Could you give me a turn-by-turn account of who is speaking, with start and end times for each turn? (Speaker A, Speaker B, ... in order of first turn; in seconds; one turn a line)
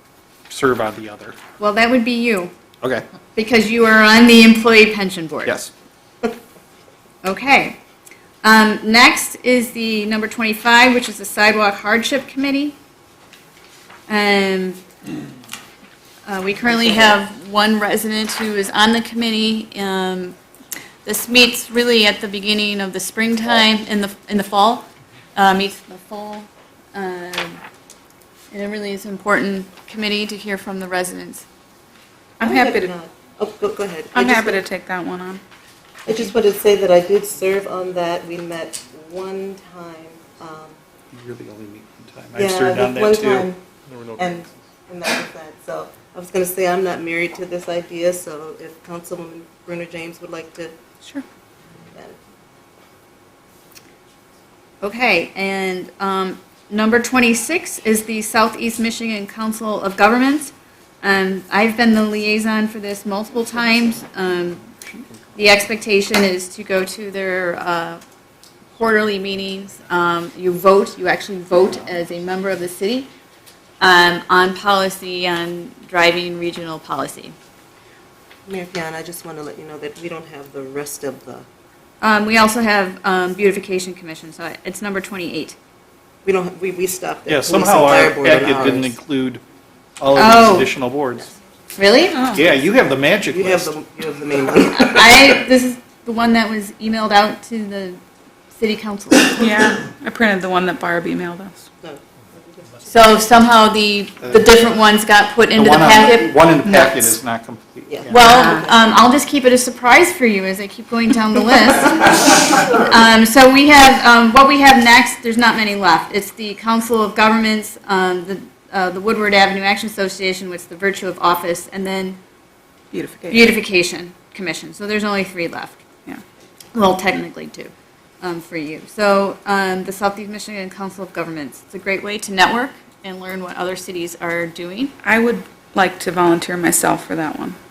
Speaker A: 0.5-1.4
Speaker B: 1.6-2.5
Speaker B: 3.4-5.5
Speaker A: 5.5-5.7
Speaker B: 7.2-7.8
Speaker B: 8.4-12.8
Speaker B: 14.1-14.8
Speaker B: 16.3-20.4
Speaker B: 21.1-27.6
Speaker B: 28.5-31.5
Speaker C: 32.4-33.0
Speaker D: 32.4-34.6
Speaker C: 34.1-35.4
Speaker D: 36.1-40.8
Speaker A: 41.1-43.5
Speaker D: 42.4-50.7
Speaker B: 54.8-64.6
Speaker B: 65.3-68.0
Speaker B: 68.7-73.1
Speaker B: 73.8-77.3
Speaker D: 78.5-81.5
Speaker B: 82.0-85.6
Speaker D: 86.2-89.0
Speaker A: 87.3-89.4
Speaker A: 90.0-91.3
Speaker B: 90.2-90.7
Speaker B: 91.8-92.3
Speaker C: 92.1-92.5
Speaker A: 92.3-93.7
Speaker D: 93.3-95.3
Speaker B: 94.7-98.0
Speaker B: 98.6-99.5
Speaker C: 99.4-101.7
Speaker D: 101.8-103.0
Speaker B: 102.9-107.1
Speaker A: 105.5-108.3
Speaker D: 107.9-108.7
Speaker B: 108.1-122.2
Speaker C: 122.9-123.5
Speaker B: 123.3-125.8
Speaker B: 126.7-127.7
Speaker B: 128.2-134.9
Speaker C: 135.0-137.6